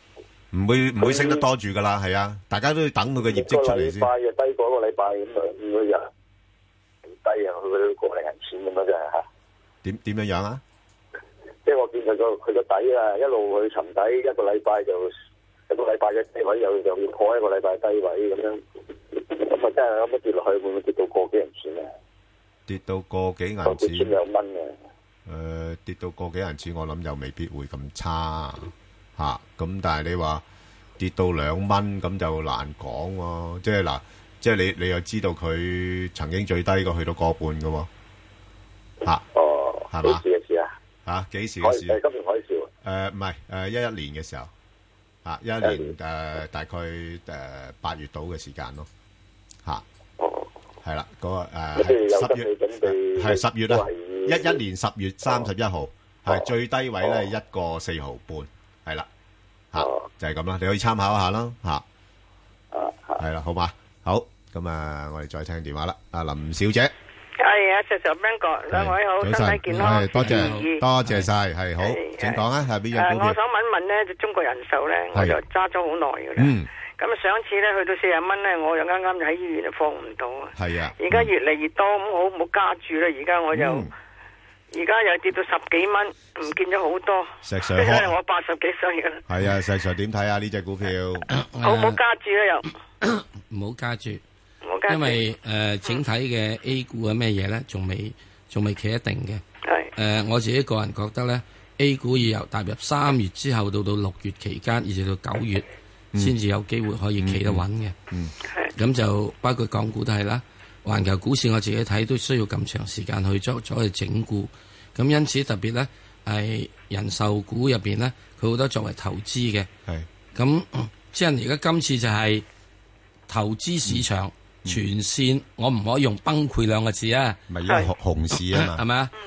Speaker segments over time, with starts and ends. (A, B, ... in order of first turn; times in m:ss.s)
0:00.5-0:04.1 A
0:01.0-0:01.4 B
0:03.2-0:06.1 B
0:07.1-0:09.2 B
0:09.8-0:10.6 A
0:11.6-0:15.1 B
0:15.7-0:21.9 B
0:22.7-0:24.2 A
0:23.6-0:24.7 B
0:25.3-0:30.4 A
0:31.0-0:37.9 A
0:39.3-0:40.7 B
0:39.9-0:40.2 A
0:41.1-0:42.0 A
0:41.6-0:42.7 B
0:42.8-0:44.5 A
0:45.2-0:48.9 A
0:45.6-0:45.9 B
0:50.2-0:50.5 B
0:50.8-0:59.1 A
0:51.8-0:54.6 B
0:59.7-1:01.8 A
0:59.8-1:00.1 B
1:02.7-1:03.2 B
1:03.2-1:06.9 A
1:07.4-1:10.8 C
1:08.7-1:13.4 A
1:09.7-1:11.3 D
1:11.8-1:12.4 C
1:12.9-1:23.9 C
1:16.4-1:16.7 A
1:20.6-1:21.3 A
1:23.5-1:23.9 A
1:24.7-1:29.2 C
1:27.4-1:28.1 A
1:29.3-1:31.3 A
1:31.3-1:32.0 D
1:31.6-1:32.7 C
1:33.0-1:34.2 D
1:34.6-1:35.2 C
1:34.9-1:39.4 D
1:39.6-1:39.9 C
1:40.0-1:45.7 D
1:46.2-1:48.0 D
1:47.2-1:48.3 A
1:48.8-1:59.7 D
2:00.3-2:02.4 D
2:03.3-2:07.4 D
2:07.5-2:08.8 A
2:08.6-2:09.1 D